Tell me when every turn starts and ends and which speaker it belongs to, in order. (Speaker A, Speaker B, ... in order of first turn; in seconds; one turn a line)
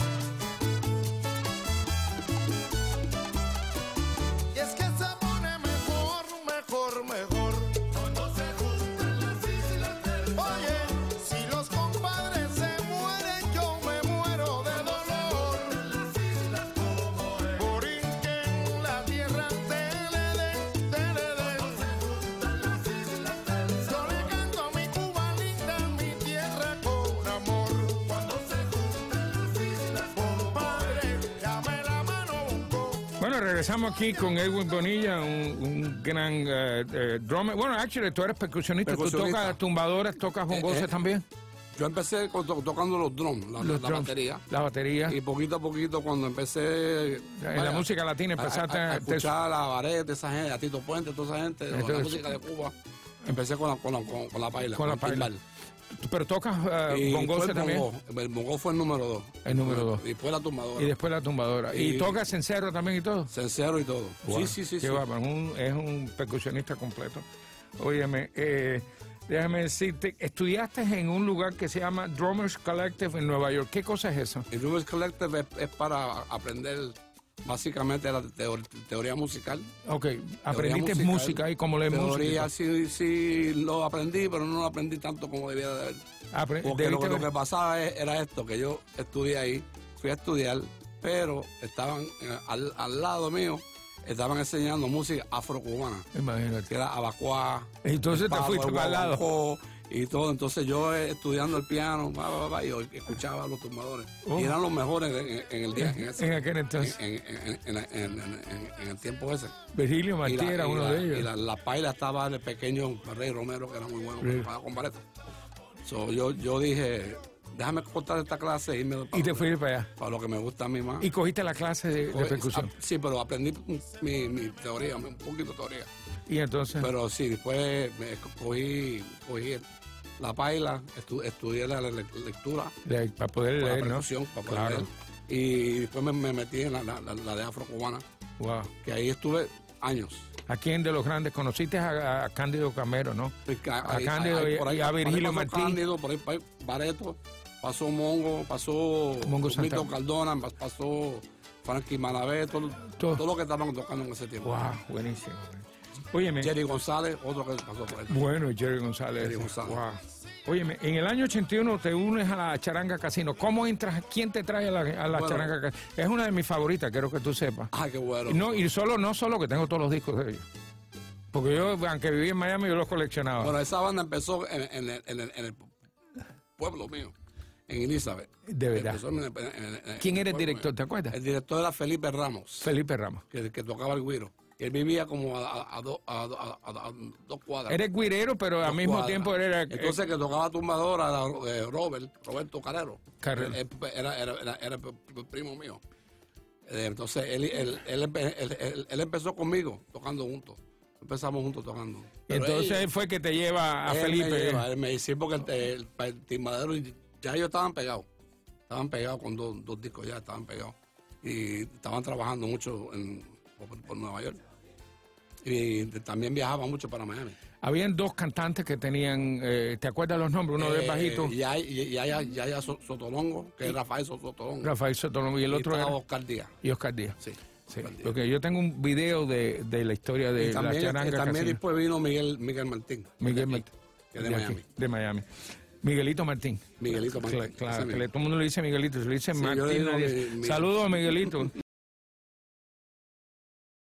Speaker A: 4.5-7.8
Speaker A: 10.2-16.0
Speaker A: 17.4-21.9
Speaker A: 23.7-28.4
Speaker A: 30.1-33.1
Speaker B: 33.2-41.2
Speaker C: 38.9-39.6
Speaker C: 40.5-40.9
Speaker C: 41.7-44.4
Speaker B: 43.6-45.2
Speaker C: 45.1-47.8
Speaker B: 47.4-49.3
Speaker C: 48.4-52.7
Speaker B: 51.7-52.4
Speaker C: 53.3-55.4
Speaker B: 54.7-55.3
Speaker B: 56.0-57.9
Speaker C: 56.9-60.9
Speaker B: 59.5-60.0
Speaker B: 60.8-63.3
Speaker C: 61.7-62.2
Speaker C: 63.3-65.0
Speaker B: 64.2-67.2
Speaker B: 67.8-74.5
Speaker C: 74.5-79.7
Speaker B: 79.8-82.5
Speaker C: 80.5-86.0
Speaker B: 86.3-87.3
Speaker C: 86.6-96.1
Speaker B: 96.1-96.7
Speaker C: 96.7-109.5
Speaker B: 97.8-99.2
Speaker B: 104.2-104.5
Speaker B: 105.8-107.0
Speaker B: 109.7-111.3
Speaker C: 110.2-115.0
Speaker B: 114.2-114.5
Speaker C: 115.8-121.1
Speaker B: 119.1-119.9
Speaker B: 121.0-122.7
Speaker C: 122.1-125.9
Speaker B: 126.3-126.9
Speaker C: 126.8-129.6
Speaker C: 130.2-132.7
Speaker B: 132.8-134.9
Speaker C: 133.6-138.0
Speaker B: 138.4-138.7
Speaker C: 138.8-140.3
Speaker B: 140.5-145.8
Speaker C: 143.5-154.5
Speaker B: 149.2-149.9
Speaker B: 153.0-153.2
Speaker B: 154.4-156.5
Speaker C: 156.4-158.2
Speaker B: 158.1-167.7
Speaker C: 159.2-159.8
Speaker C: 165.1-165.5
Speaker C: 167.7-168.7
Speaker B: 168.3-170.4
Speaker B: 171.3-173.5
Speaker C: 173.4-175.7
Speaker C: 176.6-177.1
Speaker C: 177.7-182.7
Speaker B: 178.5-179.0
Speaker B: 180.0-181.1
Speaker B: 182.6-183.2
Speaker C: 183.3-187.8
Speaker B: 187.7-190.0
Speaker C: 188.6-195.8
Speaker B: 193.2-193.6
Speaker C: 196.7-202.8
Speaker B: 202.3-204.6
Speaker C: 203.9-208.1
Speaker C: 208.7-214.4
Speaker C: 215.4-217.4
Speaker B: 217.6-221.3
Speaker C: 220.6-224.7
Speaker B: 224.6-226.0
Speaker C: 225.5-226.5
Speaker B: 226.6-227.2
Speaker C: 227.2-228.1
Speaker B: 227.7-231.6
Speaker C: 230.4-234.6
Speaker B: 233.2-235.2
Speaker B: 235.8-241.5
Speaker C: 236.8-238.0
Speaker C: 239.3-240.7